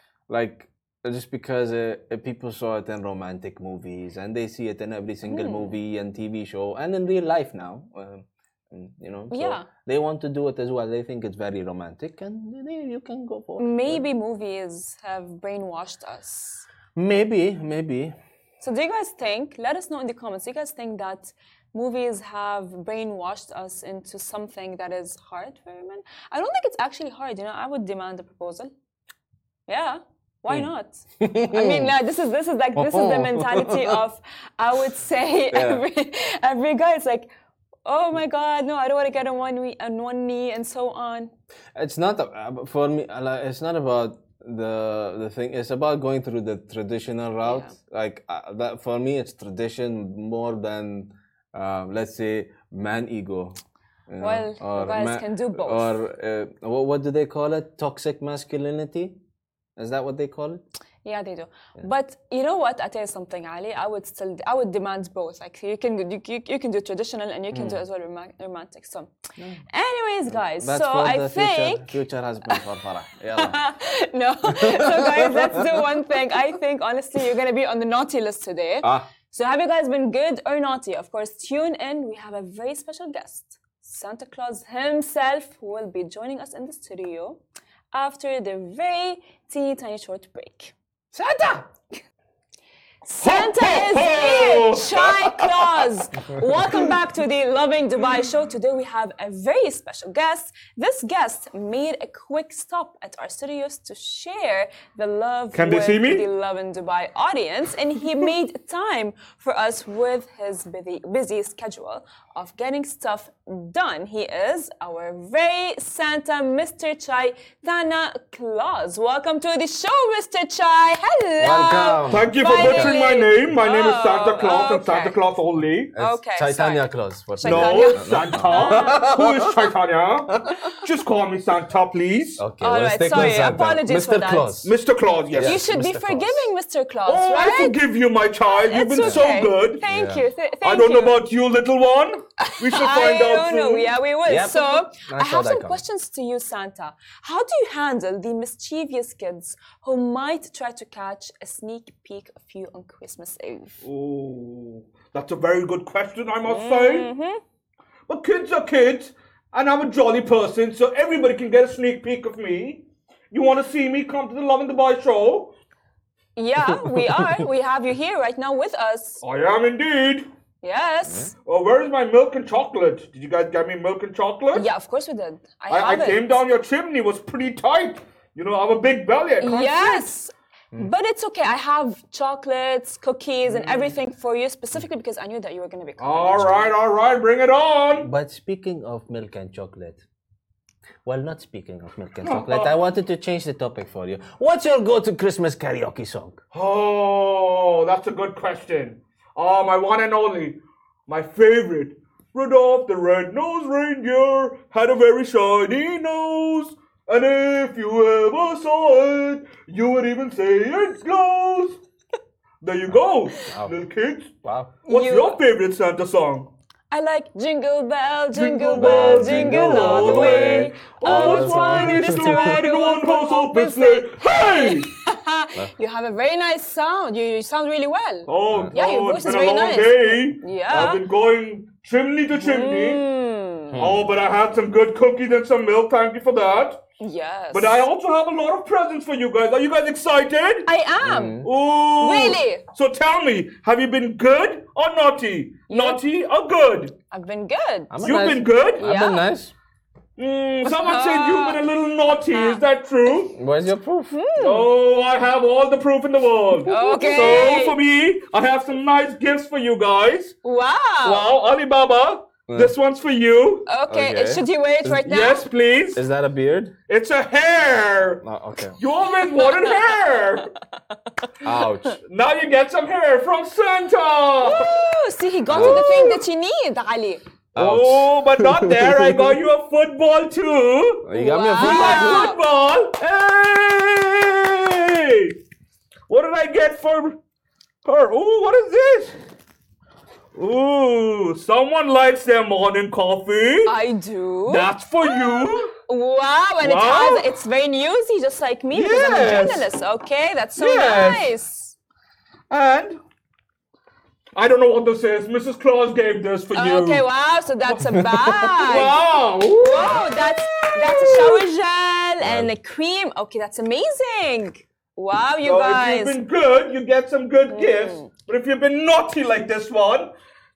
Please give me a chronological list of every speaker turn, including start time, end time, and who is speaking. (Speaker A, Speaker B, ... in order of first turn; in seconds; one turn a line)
Speaker A: 0.3-14.0
Speaker B: 5.2-5.7
Speaker B: 9.3-9.7
Speaker B: 13.6-16.7
Speaker A: 16.9-18.1
Speaker B: 18.6-28.7
Speaker B: 29.7-37.3
Speaker A: 31.2-31.9
Speaker A: 32.8-34.0
Speaker A: 35.5-35.8
Speaker B: 37.9-41.3
Speaker A: 41.8-53.6
Speaker B: 47.4-47.8
Speaker A: 54.1-59.1
Speaker B: 54.2-56.0
Speaker A: 59.8-60.6
Speaker B: 61.0-69.1
Speaker A: 67.5-67.8
Speaker A: 69.4-69.6
Speaker B: 69.7-72.0
Speaker A: 70.3-73.6
Speaker B: 73.3-87.4
Speaker A: 74.5-75.7
Speaker A: 78.8-79.1
Speaker B: 87.9-90.7
Speaker A: 91.1-91.6
Speaker B: 93.0-125.2
Speaker C: 93.2-95.9
Speaker C: 105.5-106.2
Speaker A: 121.4-123.0
Speaker C: 122.1-125.9
Speaker A: 125.9-129.7
Speaker B: 126.0-129.1
Speaker C: 127.4-132.4
Speaker A: 130.4-130.7
Speaker A: 132.4-134.7
Speaker B: 132.6-134.6
Speaker C: 134.6-135.6
Speaker A: 135.3-136.5
Speaker B: 135.4-137.8
Speaker C: 137.1-139.8
Speaker B: 138.5-141.2
Speaker A: 139.0-139.3
Speaker A: 139.9-140.3
Speaker C: 140.6-143.9
Speaker B: 142.4-153.8
Speaker A: 144.3-145.8
Speaker C: 153.8-157.1
Speaker B: 156.4-157.4
Speaker C: 158.1-165.5
Speaker B: 166.4-169.2
Speaker A: 166.7-167.4
Speaker C: 169.2-170.3
Speaker B: 170.6-171.3
Speaker C: 171.4-174.7
Speaker B: 174.5-176.4
Speaker C: 175.7-180.1
Speaker B: 179.4-186.7
Speaker C: 183.5-183.9
Speaker C: 186.0-188.1
Speaker A: 187.9-190.0
Speaker A: 191.1-196.4
Speaker C: 192.2-192.7
Speaker C: 196.5-211.8
Speaker C: 212.6-216.5
Speaker A: 212.9-213.8
Speaker A: 214.4-214.7
Speaker B: 214.9-215.4
Speaker B: 216.9-231.0
Speaker C: 218.3-224.9
Speaker A: 218.8-222.6
Speaker C: 228.3-233.0
Speaker B: 232.3-233.8
Speaker A: 233.7-234.1
Speaker C: 233.8-236.8
Speaker B: 237.0-237.9
Speaker C: 237.5-240.7
Speaker B: 240.7-241.4
Speaker A: 241.0-241.5
Speaker C: 241.4-246.9
Speaker B: 242.0-242.6
Speaker B: 245.7-246.0
Speaker B: 247.1-248.2
Speaker A: 247.9-249.5
Speaker C: 248.0-248.8
Speaker B: 248.8-249.2
Speaker C: 250.2-253.4
Speaker B: 250.7-251.6
Speaker B: 252.3-252.6
Speaker A: 253.3-254.2
Speaker B: 254.1-254.7
Speaker C: 254.4-260.4
Speaker B: 256.6-257.8
Speaker A: 257.0-257.4
Speaker B: 260.4-261.3
Speaker C: 261.0-263.7
Speaker A: 262.5-262.8
Speaker B: 263.7-265.5
Speaker A: 263.9-265.1
Speaker C: 265.1-266.0
Speaker A: 265.9-266.7
Speaker C: 266.9-268.2
Speaker A: 268.2-268.8
Speaker C: 268.8-270.5
Speaker B: 269.3-269.9
Speaker A: 271.4-272.0
Speaker C: 272.0-274.9
Speaker B: 274.4-277.2
Speaker A: 275.5-276.1
Speaker C: 275.5-276.2
Speaker A: 277.6-279.4
Speaker C: 277.6-285.4
Speaker A: 281.0-282.3
Speaker B: 281.1-282.4
Speaker C: 286.1-287.2
Speaker C: 287.8-289.2
Speaker C: 290.4-293.8
Speaker B: 293.7-301.8
Speaker C: 294.5-295.7
Speaker C: 296.6-297.3
Speaker C: 298.7-299.7
Speaker C: 300.6-301.4
Speaker C: 302.5-303.0
Speaker C: 304.4-307.1
Speaker B: 306.5-309.0
Speaker A: 307.8-308.6
Speaker C: 308.6-311.5
Speaker B: 309.6-316.2
Speaker A: 312.2-312.5
Speaker C: 315.4-320.1
Speaker B: 317.5-318.1